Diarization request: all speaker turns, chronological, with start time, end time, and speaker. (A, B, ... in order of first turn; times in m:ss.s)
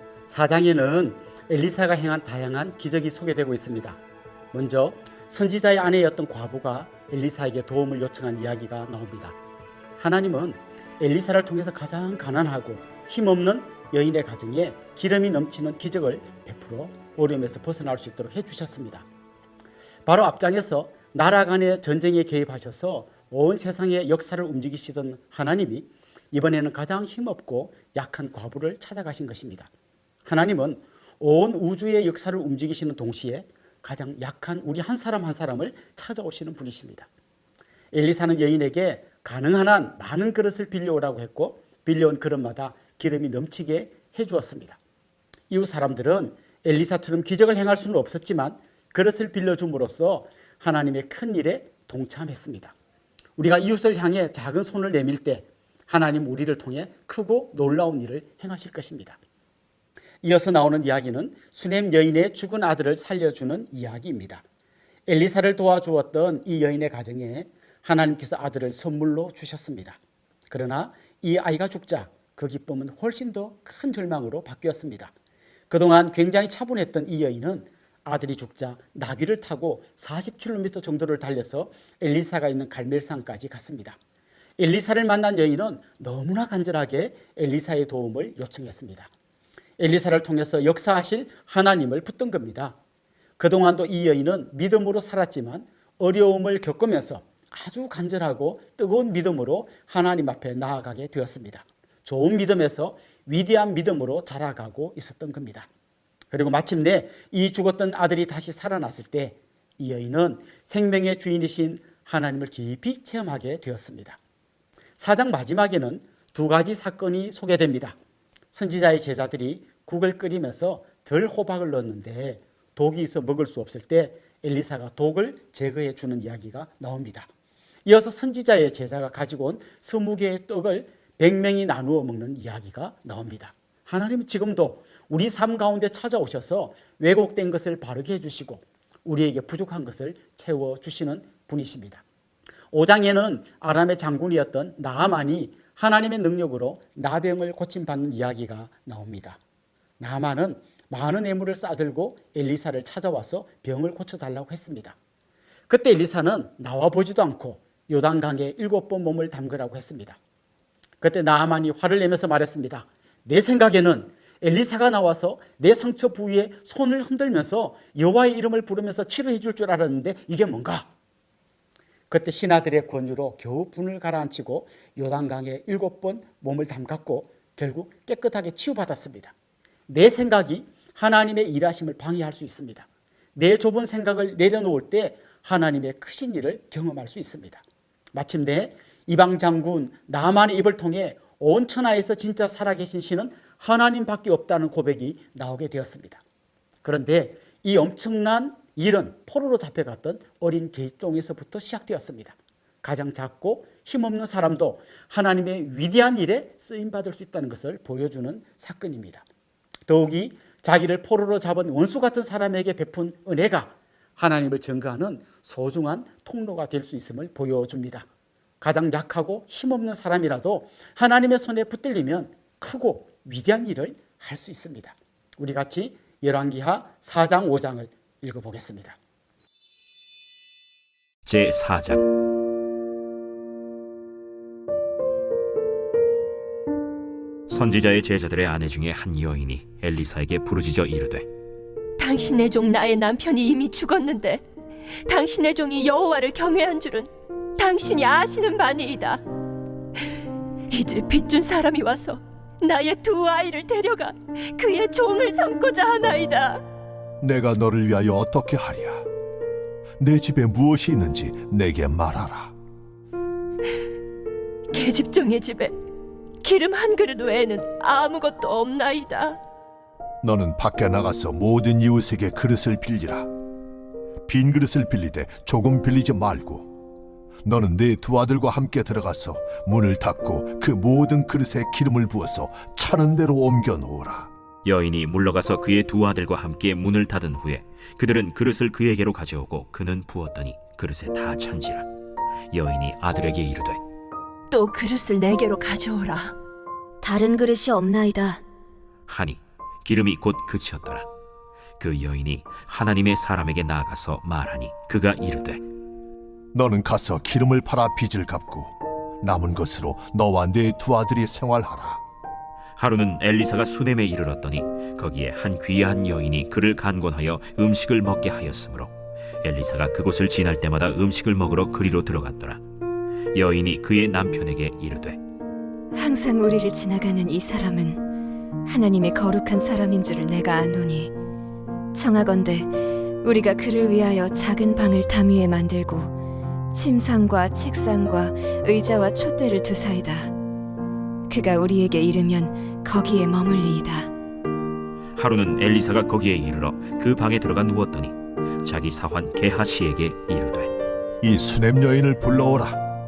0:00.3-0:04.0 A
0:04.5-0:09.4 A
0:10.0-0:19.0 A
0:20.1-0:29.7 A
0:30.2-0:37.1 A
0:37.9-0:44.8 A
0:45.5-0:52.7 A
0:53.4-0:59.2 A
1:00.2-1:04.4 A
1:05.1-1:10.0 A
1:10.5-1:15.1 A
1:15.7-1:24.0 A
1:24.6-1:29.1 A
1:29.8-1:32.8 A
1:33.4-1:45.7 A
1:46.3-1:54.2 A
1:55.0-1:58.0 A
1:58.5-2:07.3 A
2:07.9-2:22.0 A
2:22.7-2:29.4 A
2:30.0-2:35.0 A
2:35.7-2:40.2 A
2:41.0-2:50.9 A
2:52.1-2:59.3 A
2:59.9-3:02.8 A
3:03.4-3:07.6 A
3:08.1-3:16.2 A
3:16.8-3:29.2 A
3:29.9-3:38.1 A
3:38.6-3:49.0 A
3:51.2-3:52.1 B
3:57.5-4:01.3 B
4:02.0-4:04.4 C
4:05.1-4:09.2 C
4:10.7-4:16.6 C
4:17.2-4:19.0 D
4:20.0-4:22.5 D
4:24.7-4:25.8 C
4:26.4-4:29.4 C
4:30.2-4:33.3 D
4:34.3-4:36.7 D
4:37.4-4:44.3 D
4:44.6-4:51.9 B
4:52.5-4:53.8 B
4:54.5-4:56.3 C
4:57.0-4:58.4 E
4:59.1-5:01.1 B
5:01.8-5:05.6 B
5:06.5-5:12.0 D
5:12.8-5:18.9 B
5:19.4-5:22.6 B
5:23.3-5:25.2 B
5:26.0-5:28.0 E
5:28.7-5:31.1 E
5:32.0-5:36.1 E
5:36.7-5:40.3 E
5:41.3-5:44.1 E
5:45.2-5:50.7 B
5:51.2-5:52.8 D